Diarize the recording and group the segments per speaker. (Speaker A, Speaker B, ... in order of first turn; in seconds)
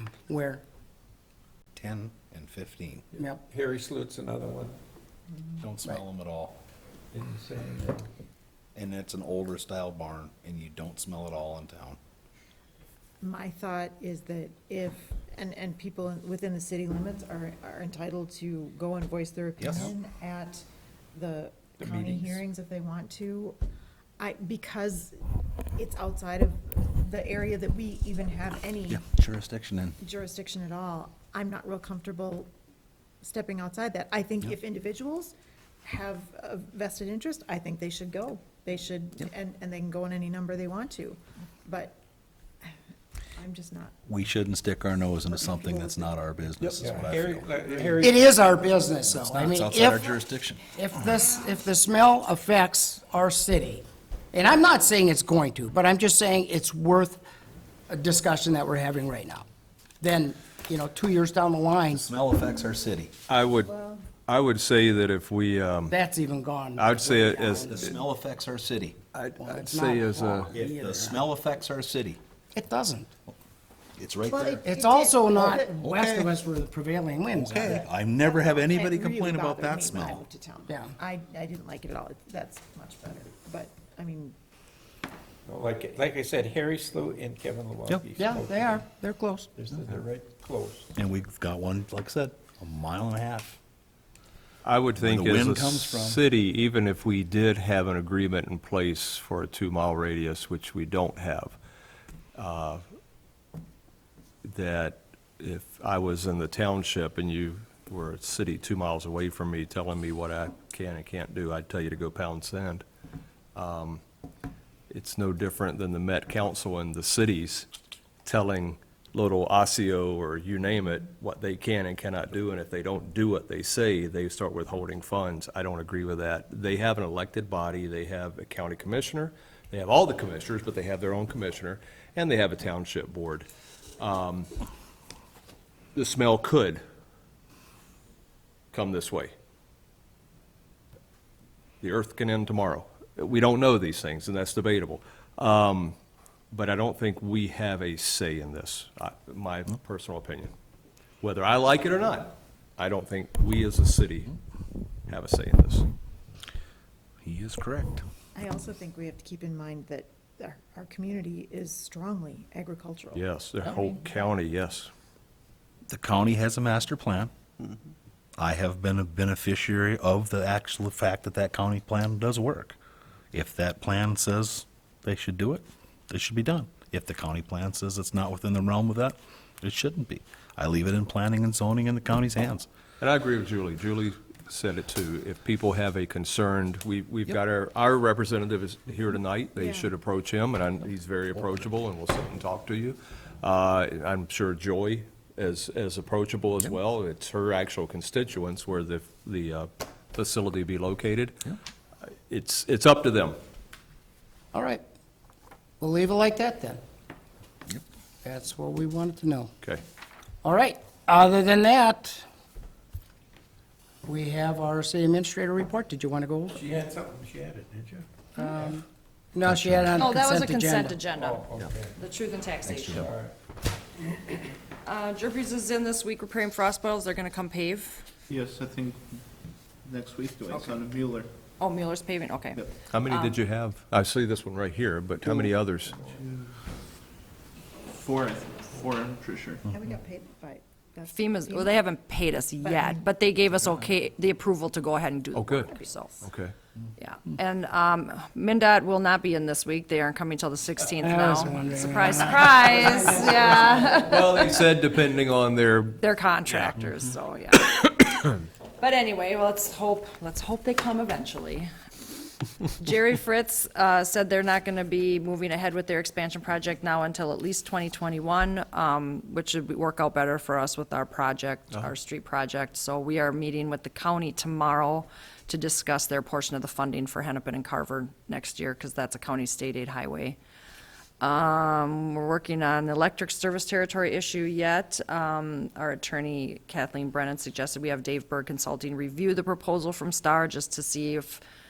Speaker A: 0.3-0.6, 48.0-50.0, 50.7-57.2, 57.9-59.4, 60.0-62.1, 65.9-68.0, 69.4-71.2, 72.5-73.1, 74.6-77.8, 80.7-80.9, 88.2-89.5, 204.5-204.8, 205.8-206.8, 208.2-209.5, 210.4-212.2, 214.0-216.6, 218.3-221.0, 251.0-254.4
Speaker B: 1.7-3.0, 5.6-6.6, 8.8-12.0, 19.6-19.9, 28.9-30.0, 44.1-48.0, 49.1-50.7, 61.9-63.1, 67.5-69.0, 70.5-72.2, 74.0-74.7, 75.8-76.3, 77.3-80.2, 91.0-93.6, 95.0-96.2, 157.2-158.1, 165.9-167.3, 168.4-172.8, 173.3-182.7, 219.5-220.0, 222.6-223.1
Speaker C: 3.2-4.8, 7.1-8.0, 21.8-22.4, 46.6-48.6, 85.5-88.8, 89.5-90.9, 216.5-218.1, 221.1-222.0, 222.9-223.3
Speaker D: 13.2-20.6, 21.1-23.6, 24.2-25.2, 25.7-29.0, 30.0-32.5, 33.2-42.0, 43.4-43.9, 63.6-64.1, 74.3-75.9, 77.5-84.3, 158.3-164.3, 189.6-189.9, 239.7-241.8, 242.6-243.1, 245.7-246.2
Speaker E: 63.3-63.7, 64.2-65.9, 66.8-68.0, 69.1-70.5, 94.6-101.6, 102.3-102.8, 104.4-112.8, 113.5-114.0, 114.9-117.7, 118.2-134.5, 135.9-136.8, 138.7-139.3, 141.8-145.9, 146.5-150.5, 151.2-154.3, 155.1-155.9, 163.1-164.9, 183.0-201.4, 202.3-203.3, 232.9-236.0, 245.3-246.5, 253.9-256.8
Speaker F: 220.0-223.1, 224.8-228.0, 231.6-233.4, 241.1-246.2, 247.0-254.8, 256.0-258.0, 258.8-261.7, 262.8-280.4, 281.2-291.4
Speaker G: 228.3-229.2, 229.8-231.3, 236.1-236.4, 237.9-239.6